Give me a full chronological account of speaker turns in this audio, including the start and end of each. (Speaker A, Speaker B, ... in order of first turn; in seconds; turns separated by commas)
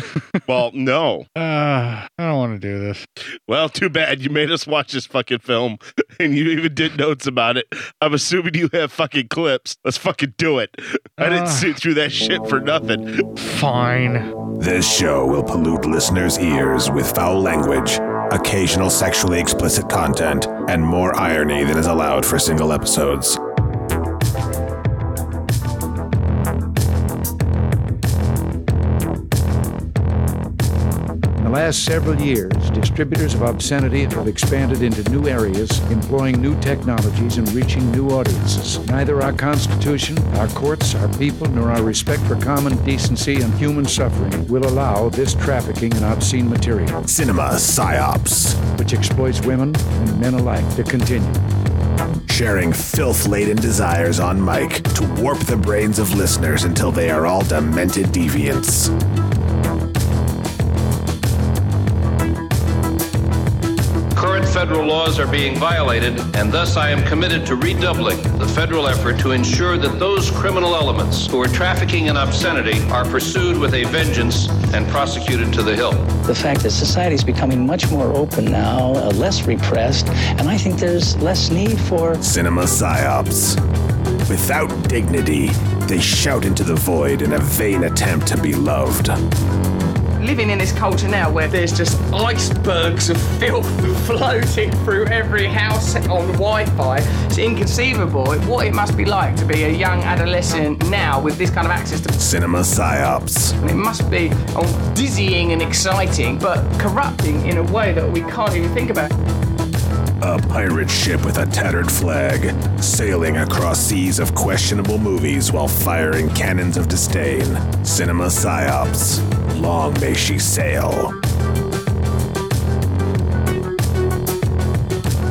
Speaker A: 0.5-1.3, Speaker B: 1.4-3.0, Speaker A: 3.5-13.2, Speaker B: 11.2-11.7, Speaker B: 13.4-14.3, Speaker C: 14.6-23.4, Speaker D: 31.4-47.0, Speaker C: 47.1-48.6, Speaker D: 48.7-51.4, Speaker C: 52.3-58.9, Speaker E: 64.2-76.2, Speaker F: 76.2-82.2, Speaker C: 82.2-83.6, Speaker C: 84.3-89.2, Speaker G: 90.2-102.2, Speaker C: 102.2-103.5, Speaker G: 103.6-109.1, Speaker C: 110.2-121.1